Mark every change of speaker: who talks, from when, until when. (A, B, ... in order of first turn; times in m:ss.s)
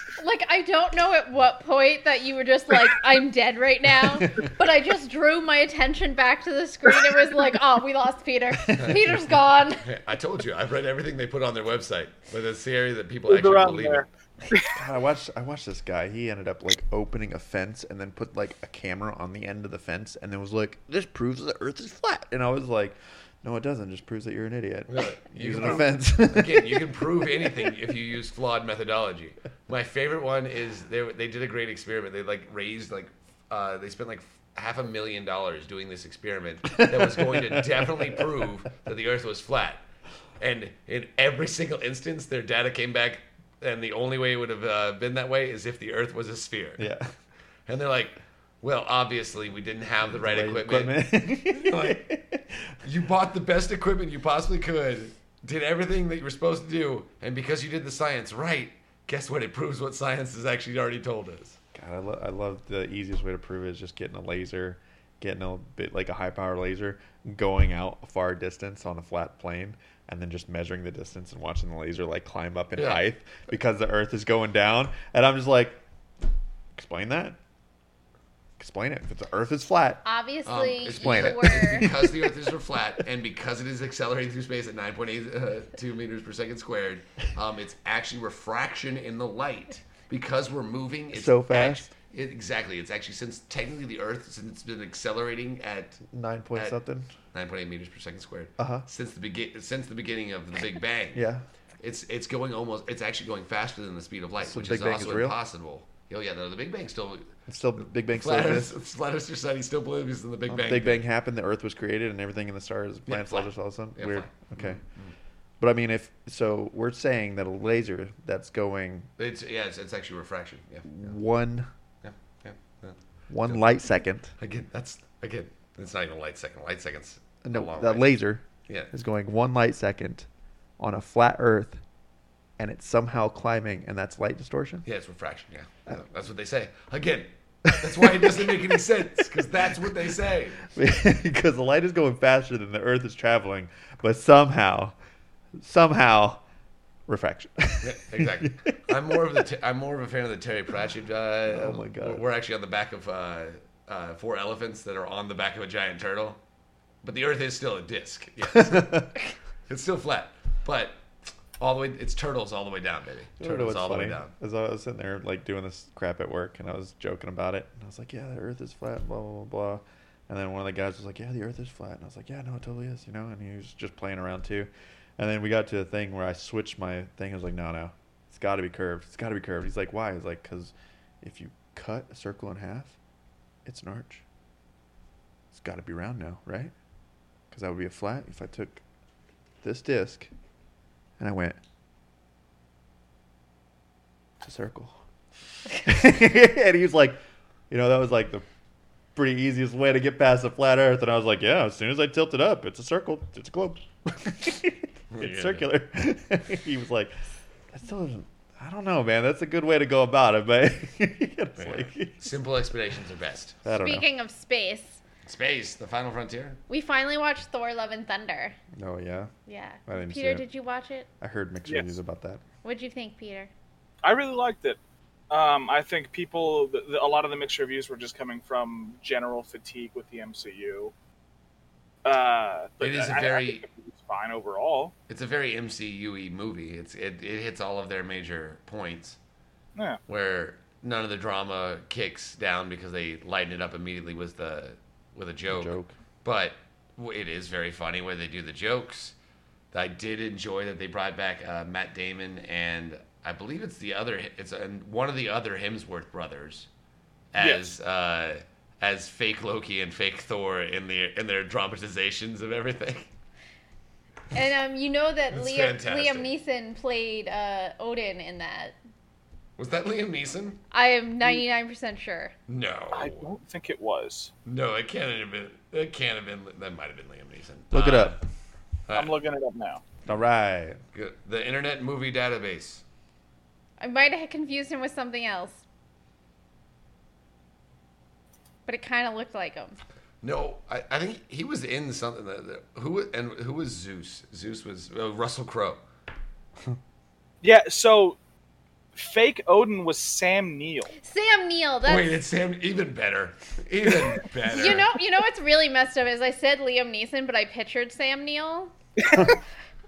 0:00.2-0:09.8 A
0:08.8-0:09.2 B
0:09.8-0:14.0 B
0:13.3-0:14.8 C
0:14.7-0:27.0 D
0:24.9-0:39.8 B
0:36.7-0:38.2 D
0:40.4-0:46.9 B
0:46.8-0:47.1 D
0:47.7-0:52.1 B
0:50.1-0:52.8 D
0:52.8-1:01.6 B
1:01.7-1:15.8 D
1:16.7-1:17.4 D
1:18.6-1:20.0 D
1:20.0-1:21.9 A
1:20.4-1:36.0 B
1:20.9-1:22.4 D
1:31.1-1:31.9 D
1:36.1-1:37.1 D
1:37.3-1:41.2 B
1:38.6-1:38.8 D
1:41.1-1:41.4 D
1:41.8-1:47.3 B
1:44.4-1:45.4 D
1:47.5-1:48.7 D
1:48.1-1:51.0 B
1:50.5-1:54.8 D
1:53.1-1:55.1 B
1:55.6-1:59.1 D
1:59.2-2:01.0 B
2:00.8-2:01.7 D
2:02.0-2:03.6 B
2:03.3-2:04.3 D
2:04.4-2:08.2 B
2:07.4-2:10.3 D
2:10.8-2:11.8 D
2:12.6-2:14.8 D
2:14.8-2:20.6 B
2:17.8-2:18.7 D
2:20.6-2:24.9 D
2:25.6-2:26.4 D
2:27.1-2:29.2 D
2:27.8-2:36.4 B
2:31.5-2:32.2 D
2:37.0-2:44.3 B
2:38.5-2:39.1 D
2:43.4-3:03.0 D
3:03.6-3:04.2 D
3:05.5-3:06.7 D
3:07.5-3:08.8 D
3:09.6-3:10.3 D
3:11.2-3:11.6 D
3:14.4-3:15.0 D
3:15.8-3:17.2 D
3:17.7-3:18.4 D
3:19.1-3:32.4 D
3:25.1-3:25.6 B
3:31.6-3:33.6 B
3:33.6-3:34.0 D
3:33.8-3:35.0 A
3:35.2-3:36.6 B
3:36.7-3:38.6 A
3:38.8-3:39.3 D
3:39.5-3:41.1 A
3:39.9-3:40.4 D
3:41.2-3:42.4 D
3:42.6-3:43.5 A
3:44.0-3:44.8 C
3:45.3-3:50.9 C
3:52.0-3:54.9 C
3:52.8-3:53.6 B
3:55.1-3:59.2 B
3:59.8-4:00.0 C
4:00.1-4:09.2 B
4:05.5-4:05.9 D
4:09.7-4:16.7 B
4:17.3-4:23.1 B
4:17.4-4:17.7 C
4:24.3-4:28.8 A
4:25.3-4:26.3 B
4:29.6-4:30.6 B
4:30.7-4:32.3 A
4:32.5-4:33.3 B
4:32.9-4:34.3 C
4:34.4-4:38.2 B
4:37.7-4:38.2 D
4:38.9-4:39.8 C
4:40.0-4:40.8 D
4:40.9-4:42.8 B
4:43.8-4:45.6 A
4:48.6-4:49.8 A
4:50.2-4:55.8 B
4:57.4-4:58.2 C
4:58.9-5:00.9 C
5:01.0-5:02.2 A
5:01.8-5:04.9 B
5:04.4-5:08.7 A
5:09.0-5:09.3 C